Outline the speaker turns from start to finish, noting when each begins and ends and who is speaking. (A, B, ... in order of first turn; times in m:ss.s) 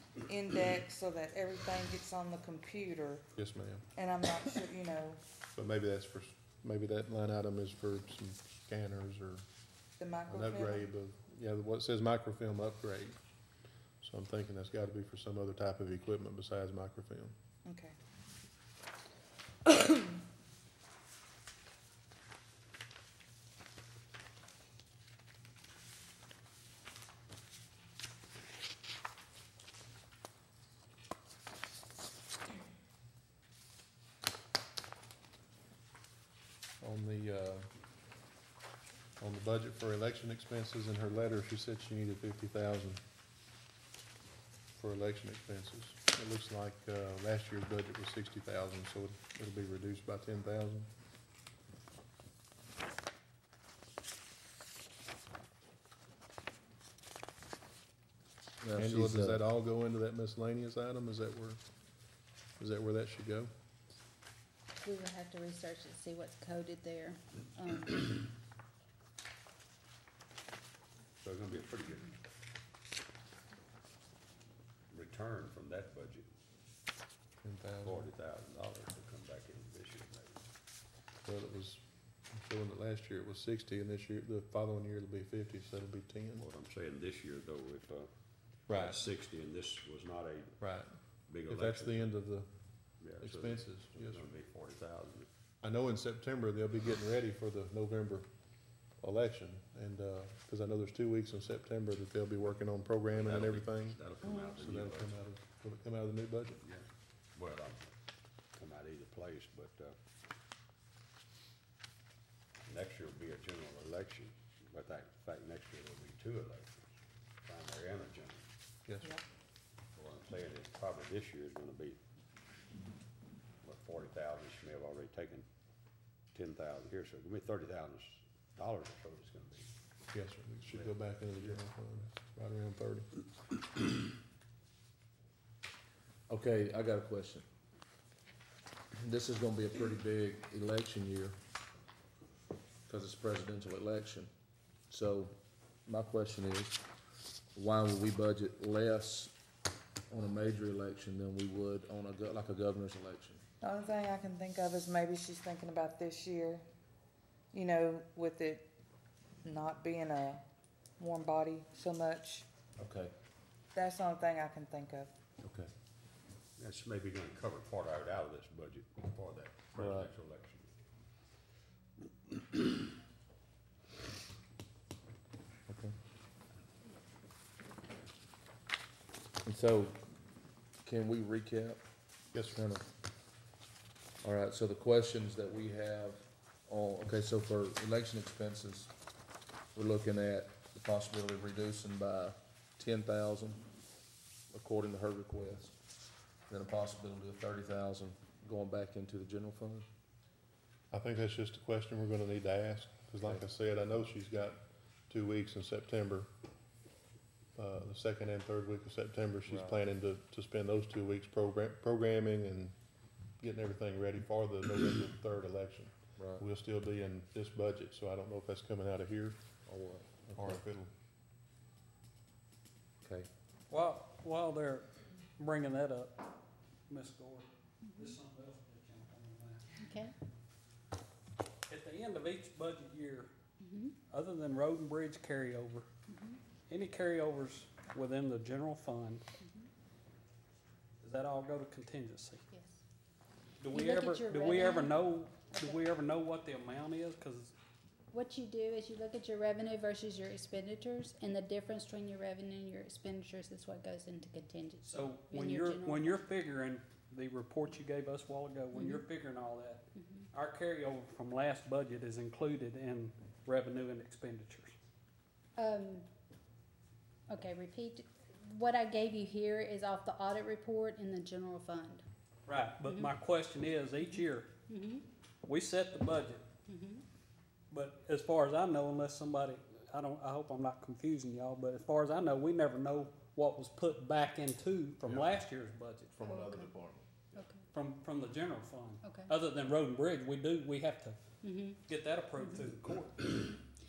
0:00.2-0:03.3 A
0:03.4-0:03.8 B
0:04.0-0:05.2 A
0:05.6-0:09.4 B
0:10.0-0:10.9 A
0:10.3-0:13.2 B
0:14.0-0:17.3 B
0:17.6-0:18.0 A
0:36.8-0:37.7 B
0:39.2-0:43.0 B
0:44.8-0:50.9 B
0:58.6-0:59.4 C
0:58.8-1:01.6 B
1:02.6-1:03.5 B
1:04.8-1:08.2 D
1:11.2-1:12.2 E
1:14.9-1:16.3 E
1:17.4-1:18.1 B
1:17.8-1:20.4 E
1:21.2-1:26.5 B
1:26.4-1:28.1 E
1:28.7-1:30.6 E
1:28.7-1:29.0 B
1:30.6-1:30.9 B
1:31.3-1:32.2 E
1:31.5-1:32.5 B
1:33.0-1:35.3 E
1:33.2-1:34.3 B
1:35.6-1:38.3 B
1:39.0-1:46.6 B
1:43.1-1:45.2 E
1:46.6-1:48.0 E
1:48.6-1:50.0 E
1:52.6-1:56.9 E
1:57.4-1:58.5 E
2:00.0-2:02.0 E
2:03.6-2:05.5 E
2:06.3-2:09.7 E
2:10.1-2:13.1 B
2:10.7-2:11.6 E
2:16.3-2:17.4 C
2:19.0-2:21.4 C
2:22.9-2:24.3 C
2:24.9-2:25.3 C
2:25.9-2:26.8 C
2:27.6-2:29.3 C
2:30.1-2:33.4 C
2:33.6-2:36.7 A
2:37.5-2:38.7 A
2:39.4-2:40.4 A
2:41.0-2:42.5 A
2:42.8-2:43.1 C
2:43.8-2:45.1 A
2:45.4-2:45.7 C
2:46.6-2:50.7 E
2:49.8-2:50.1 C
2:55.7-2:55.9 C
2:59.4-3:00.0 C
3:00.8-3:01.8 C
3:02.3-3:02.6 B
3:02.5-3:02.8 C
3:04.2-3:08.9 C
3:09.8-3:13.6 C
3:14.5-3:15.8 C
3:16.5-3:19.9 C
3:20.9-3:26.3 B
3:27.6-3:32.8 B
3:29.5-3:29.8 C
3:33.4-3:39.4 B
3:36.2-3:36.4 C
3:39.7-3:40.6 C
3:40.4-3:40.9 B
3:43.0-3:43.3 C
3:43.7-3:46.2 F
3:46.9-3:49.8 F
3:47.8-3:48.2 D
3:49.8-3:50.1 D
3:51.7-3:53.3 F
3:53.6-3:54.0 D
3:54.1-3:55.9 F
3:56.1-3:56.4 D
3:56.7-3:59.2 F
3:59.4-3:59.7 D
4:01.0-4:02.4 F
4:02.5-4:02.8 D
4:03.6-4:07.6 F
4:03.7-4:05.9 D
4:08.1-4:16.2 D
4:14.8-4:24.8 F
4:18.7-4:19.0 D
4:20.0-4:20.3 D
4:25.6-4:26.0 D
4:27.3-4:32.0 D
4:32.5-4:34.6 F
4:32.8-4:33.2 D
4:34.0-4:35.0 D
4:35.4-4:36.5 F
4:36.7-4:37.0 D
4:37.7-4:46.2 F
4:46.2-4:46.8 D
4:47.3-4:47.7 D
4:47.7-4:51.2 F
4:49.0-4:49.4 D
4:51.4-4:51.8 D
4:51.8-4:53.3 F
4:52.4-4:52.7 D
4:53.3-4:53.6 D